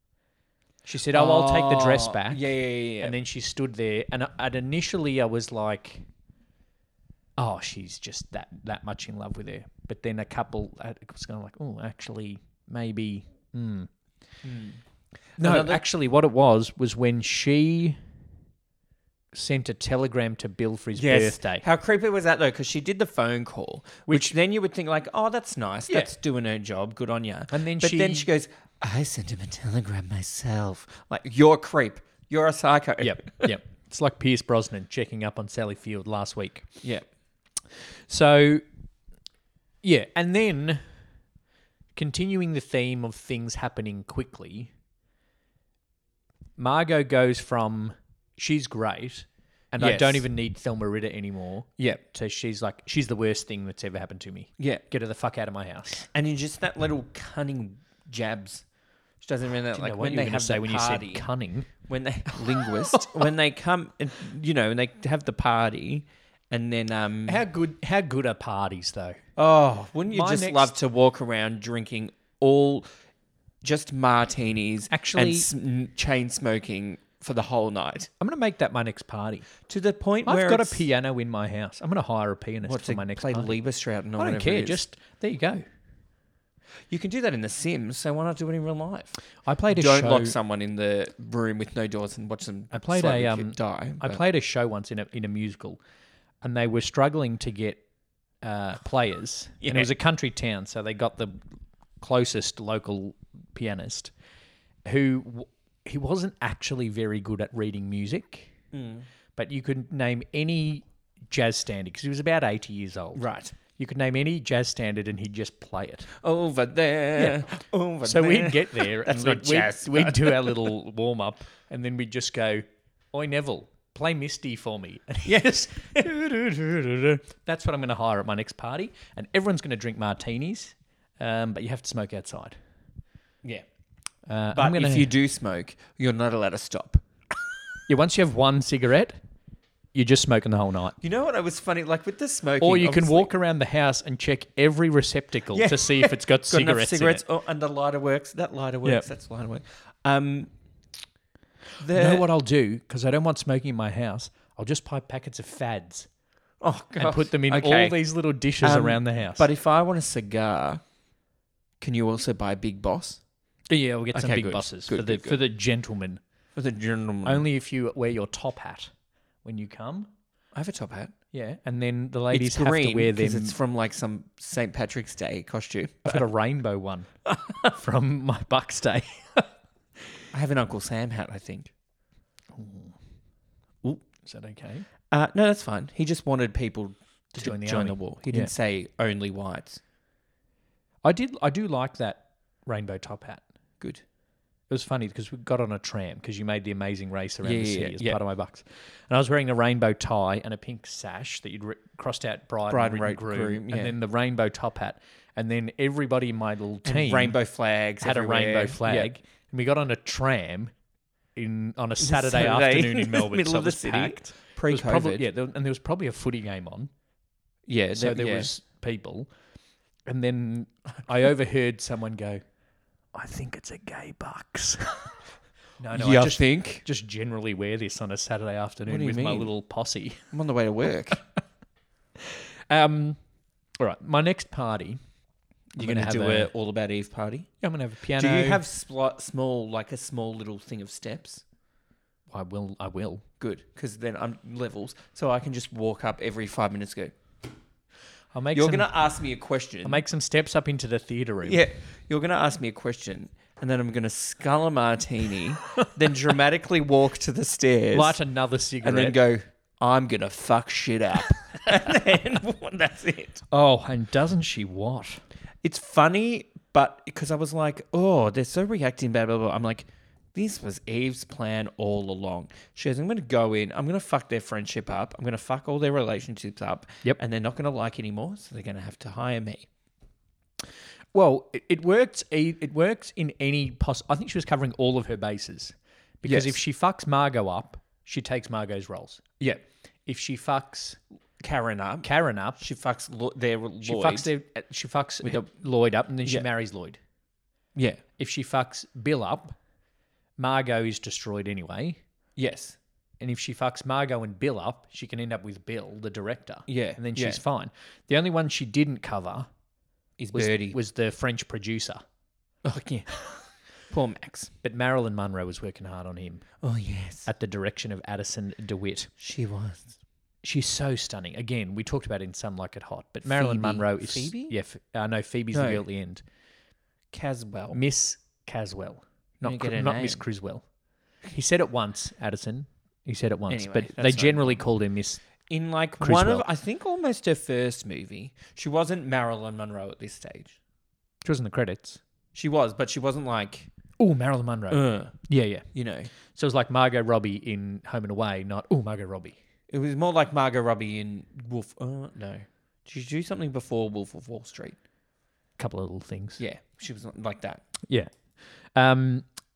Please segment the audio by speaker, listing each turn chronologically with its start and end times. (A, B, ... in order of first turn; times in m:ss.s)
0:00.9-0:02.4 A
0:01.1-0:03.2 B
0:03.0-0:06.0 A
0:07.4-0:13.9 A
0:14.4-0:14.8 B
0:15.4-0:15.8 B
0:15.4-0:18.0 A
0:19.3-0:21.6 A
0:21.0-0:33.5 B
0:24.1-0:24.3 A
0:25.9-0:26.1 A
0:27.5-0:28.3 A
0:33.0-0:36.7 A
0:38.1-0:38.6 A
0:39.8-0:40.9 A
0:42.0-0:44.7 A
0:46.6-0:56.0 A
0:49.8-0:50.3 B
0:56.0-0:58.6 B
0:59.2-1:01.3 B
0:59.7-1:01.7 A
1:01.9-1:07.4 B
1:02.5-1:03.2 A
1:07.3-1:09.2 A
1:09.4-1:12.9 B
1:10.1-1:10.8 A
1:13.6-1:18.1 B
1:14.9-1:15.5 A
1:18.2-1:19.5 A
1:19.6-1:20.9 B
1:20.2-1:23.6 A
1:22.6-1:24.8 B
1:24.2-1:25.6 A
1:26.9-1:29.2 B
1:29.4-1:30.4 A
1:29.7-1:34.2 B
1:32.7-1:35.8 A
1:36.4-1:37.8 A
1:38.4-1:41.4 A
1:39.6-1:39.9 B
1:42.0-1:44.1 A
1:44.9-1:48.6 A
1:48.7-1:49.1 B
1:49.4-1:56.1 A
1:53.1-1:53.6 B
1:56.2-2:00.7 B
1:57.2-1:57.4 A
1:58.0-2:12.6 A
2:05.3-2:06.1 B
2:14.3-2:15.1 A
2:14.5-2:17.0 B
2:17.9-2:19.2 A
2:19.9-2:21.0 A
2:21.0-2:23.3 B
2:22.6-2:27.2 A
2:25.5-2:30.5 B
2:31.8-2:32.3 B
2:31.9-2:36.1 A
2:36.6-2:38.0 B
2:37.0-2:39.5 A
2:38.6-2:40.8 B
2:41.8-2:43.2 B
2:43.7-2:46.2 A
2:44.1-2:45.4 B
2:46.6-2:47.4 B
2:47.2-2:48.9 A
2:49.4-2:50.1 A
2:50.5-2:51.1 B
2:51.3-2:53.6 A
2:52.3-2:56.3 B
2:56.0-2:57.1 A
2:57.3-2:57.6 B
2:57.6-2:59.5 A
3:00.3-3:01.7 B
3:02.5-3:02.9 A
3:04.2-3:04.9 A
3:05.1-3:09.8 B
3:07.4-3:08.5 A
3:11.0-3:13.4 A
3:14.7-3:27.4 A
3:17.4-3:18.2 B
3:22.7-3:24.0 B
3:26.8-3:29.1 B
3:28.0-3:30.7 A
3:31.4-3:36.9 A
3:32.0-3:35.3 B
3:37.7-3:38.5 B
3:38.0-3:39.3 A
3:40.1-3:42.4 A
3:43.1-3:45.1 A
3:45.8-3:50.3 A
3:45.9-3:46.8 B
3:48.9-3:49.5 B
3:50.3-3:51.2 B
3:52.7-3:53.2 A
3:53.8-3:55.0 A
3:55.8-3:57.5 B
3:55.8-3:56.5 A
3:57.6-3:58.6 A
3:58.1-4:01.4 B
4:02.3-4:03.3 A
4:03.4-4:07.1 B
4:08.3-4:08.9 A
4:08.5-4:10.0 B
4:09.8-4:11.6 A
4:11.4-4:18.2 B
4:17.9-4:19.2 A
4:18.8-4:23.4 B
4:23.5-4:25.2 A
4:25.6-4:39.7 B
4:41.1-4:49.2 A
4:46.2-4:46.6 B
4:50.1-4:51.0 A
4:51.4-4:52.1 B
4:52.0-4:52.6 A
4:52.6-4:54.3 B
4:53.8-4:57.0 A
4:57.8-4:58.0 B
4:58.2-4:59.6 A
5:00.4-5:02.0 A
5:02.4-5:02.8 B
5:03.2-5:09.5 A
5:06.7-5:07.4 B
5:10.2-5:10.8 B
5:10.3-5:12.0 A
5:12.6-5:14.5 B
5:14.6-5:16.4 A
5:16.6-5:17.3 B
5:17.3-5:19.1 A
5:19.2-5:19.9 B
5:20.4-5:26.2 A
5:23.2-5:24.6 B
5:25.5-5:25.8 B
5:27.1-5:27.8 B
5:27.7-5:30.6 A
5:29.4-5:30.2 B
5:31.3-5:35.2 A
5:33.5-5:34.6 B
5:35.5-5:40.6 B
5:36.0-5:36.4 A
5:41.2-5:42.0 A
5:42.4-5:43.7 B
5:44.0-5:45.6 A
5:44.7-5:45.1 B
5:45.7-5:46.1 B
5:46.2-5:49.4 A
5:49.7-5:54.8 B
5:55.6-5:56.4 A
5:56.4-5:57.6 B
5:57.9-5:58.1 A
5:58.7-5:59.3 A